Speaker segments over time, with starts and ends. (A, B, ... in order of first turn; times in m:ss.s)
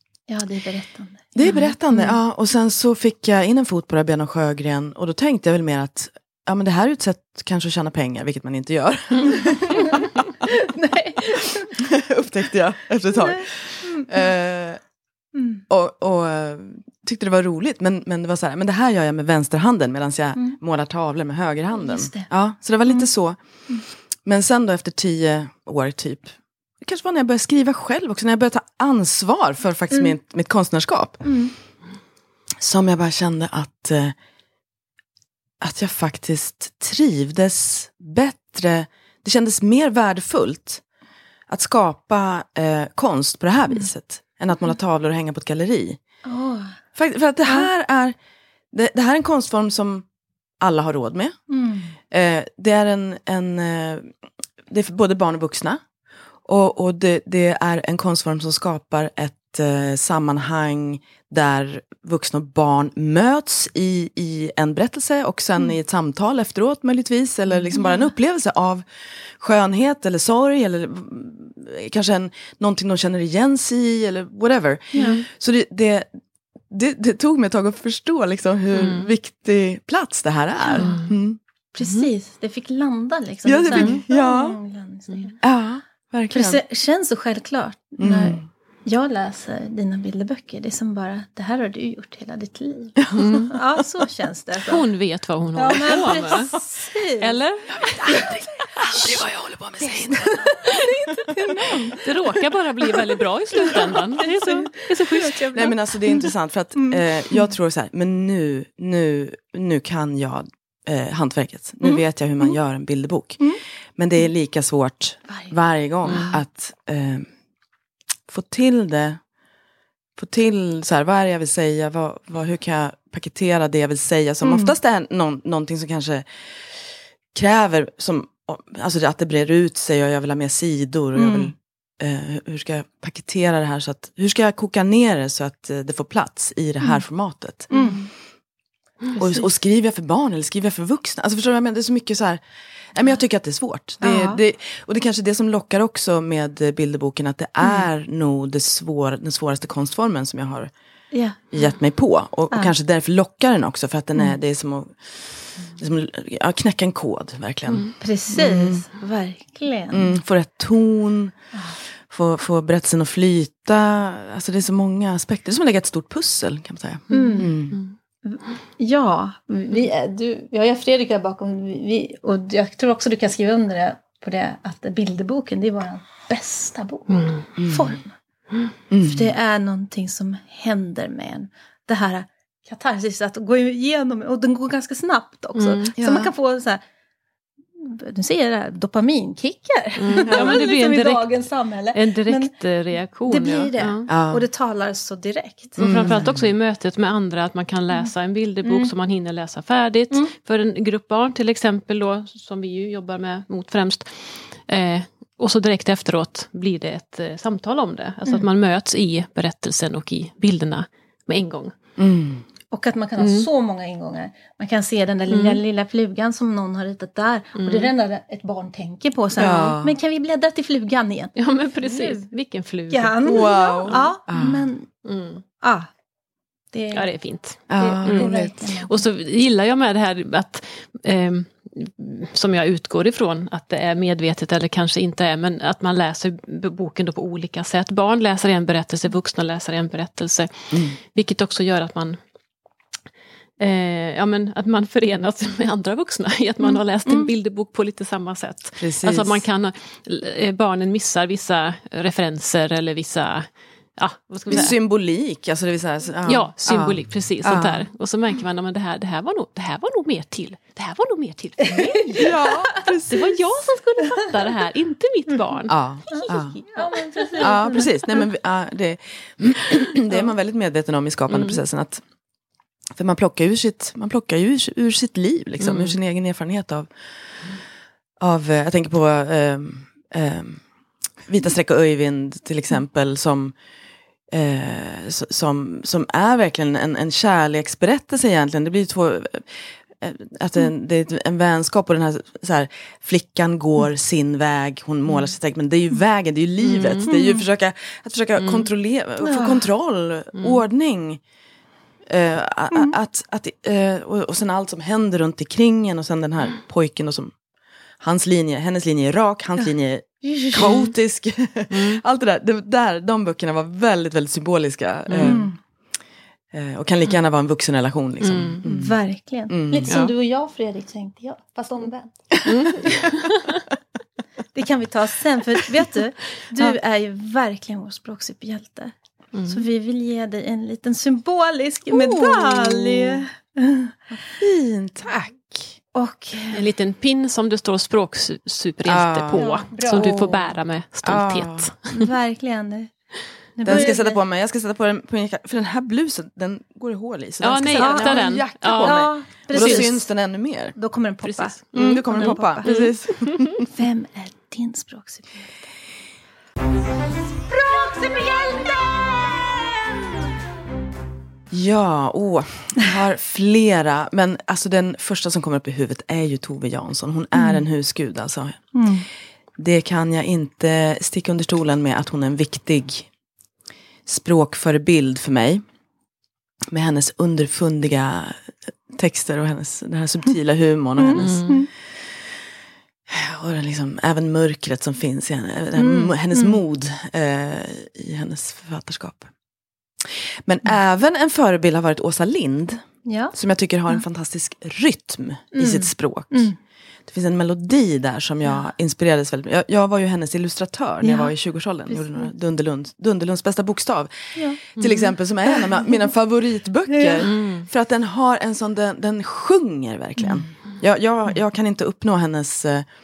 0:00.3-0:01.7 A
0:01.3-0:10.5 B
0:09.4-0:11.8 A
0:11.4-0:14.8 B
0:13.1-0:14.2 A
0:15.3-0:15.6 A
0:15.7-0:23.4 B
0:21.8-0:22.3 A
0:24.2-0:31.2 B
0:31.2-0:31.5 A
0:32.6-0:34.1 B
0:35.6-0:40.8 B
0:41.5-0:46.0 B
0:46.2-0:46.8 A
0:47.0-0:48.2 B
0:48.7-0:50.0 B
0:50.6-0:51.3 B
0:51.5-0:51.9 A
0:52.1-0:54.1 B
0:54.7-0:55.8 B
0:56.4-1:08.8 B
1:09.4-1:16.1 B
1:14.9-1:15.2 A
1:16.7-1:21.4 B
1:18.7-1:19.1 C
1:20.6-1:21.0 A
1:20.8-1:21.1 C
1:21.7-1:25.4 A
1:21.8-1:22.1 C
1:23.4-1:24.6 B
1:23.7-1:24.0 C
1:25.4-1:26.6 B
1:26.3-1:34.8 A
1:28.0-1:28.4 B
1:33.0-1:33.3 B
1:33.2-1:33.5 C
1:34.6-1:36.6 C
1:35.6-1:37.4 A
1:37.2-1:38.1 C
1:37.8-1:41.3 B
1:38.0-1:38.4 A
1:39.9-1:42.0 A
1:41.7-1:45.4 C
1:43.6-1:47.0 A
1:45.5-1:53.4 B
1:54.0-1:57.3 B
1:56.1-1:56.4 A
1:58.3-1:59.2 B
2:00.2-2:06.2 B
2:04.4-2:04.7 A
2:07.3-2:17.7 B
2:11.2-2:11.5 A
2:17.7-2:18.0 A
2:19.1-2:19.4 A
2:19.2-2:22.4 B
2:22.9-2:30.7 B
2:24.0-2:24.4 A
2:31.1-2:31.4 A
2:31.5-2:35.1 B
2:35.7-2:38.8 B
2:38.0-2:40.1 A
2:39.9-2:41.3 B
2:42.1-2:47.8 B
2:47.1-2:47.6 A
2:47.1-2:47.9 C
2:48.2-2:58.1 A
2:57.1-2:57.4 C
2:57.6-2:58.0 B
2:58.9-2:59.3 B
2:59.0-3:06.8 A
3:05.6-3:05.9 C
3:06.0-3:06.3 B
3:07.8-3:16.3 A
3:10.0-3:11.3 C
3:10.2-3:10.6 B
3:11.9-3:14.1 C
3:14.1-3:14.5 B
3:15.8-3:16.5 B
3:15.8-3:31.7 C
3:18.6-3:18.9 A
3:32.0-3:32.4 B
3:32.7-3:42.2 A
3:33.2-3:33.5 C
3:35.3-3:35.6 C
3:37.6-3:37.9 C
3:39.4-3:40.0 B
3:41.4-3:44.1 C
3:42.9-3:44.9 A
3:43.2-3:44.7 B
3:45.0-3:45.4 C
3:45.6-3:45.9 A
3:46.7-3:47.1 A
3:46.9-4:02.2 C
3:47.7-3:48.5 B
3:47.7-3:49.0 A
4:00.7-4:01.0 B
4:03.6-4:14.8 C
4:08.8-4:09.4 B
4:14.5-4:17.8 B
4:16.2-4:25.8 C
4:21.7-4:22.7 A
4:22.2-4:23.4 B
4:25.7-4:26.6 B
4:26.1-4:28.2 A
4:27.4-4:32.0 B
4:31.3-4:31.6 C
4:32.9-4:36.9 B
4:35.6-4:35.9 C
4:38.2-4:40.6 B
4:41.2-4:43.5 B
4:44.3-5:01.2 B
4:56.6-4:57.1 C
4:57.1-4:57.4 A
4:58.4-4:58.7 C
4:59.2-4:59.6 A
5:00.3-5:00.6 C
5:02.1-5:07.3 B
5:08.0-5:15.5 B
5:10.2-5:10.8 A
5:11.7-5:12.0 C
5:15.1-5:15.4 C
5:15.2-5:15.6 A
5:16.5-5:19.0 B
5:18.2-5:18.6 C
5:18.6-5:22.9 A
5:19.5-5:19.9 B
5:19.9-5:20.1 C
5:22.4-5:23.0 B
5:22.5-5:23.6 C
5:24.5-5:28.9 A
5:29.3-5:29.6 C
5:29.5-5:34.2 A
5:31.9-5:33.2 B
5:34.4-5:35.7 B
5:35.9-5:36.7 A
5:36.5-5:42.1 C
5:38.8-5:40.5 B
5:39.3-5:40.4 A
5:41.0-5:41.7 B
5:41.9-5:42.9 A
5:43.6-5:44.2 A
5:43.6-5:50.8 B
5:47.4-5:49.9 C
5:47.8-5:50.1 A
5:50.8-5:52.7 A
5:51.4-5:53.6 C
5:51.7-5:53.7 B
5:53.6-5:55.7 A
5:57.4-5:59.8 A
6:01.5-6:08.6 B
6:08.7-6:09.0 A
6:09.6-6:13.1 B
6:14.1-6:15.6 B
6:16.7-6:21.5 B
6:21.0-6:21.7 A
6:21.2-6:21.6 C
6:23.1-6:29.3 B
6:25.8-6:26.6 A
6:30.0-6:36.5 B
6:33.0-6:33.3 A
6:35.5-6:36.5 A
6:37.1-6:52.9 B
6:41.0-6:41.3 A
6:41.9-6:42.2 A
6:44.8-6:45.1 C
6:45.5-6:45.9 A
6:46.9-6:47.3 A
6:47.2-6:47.6 C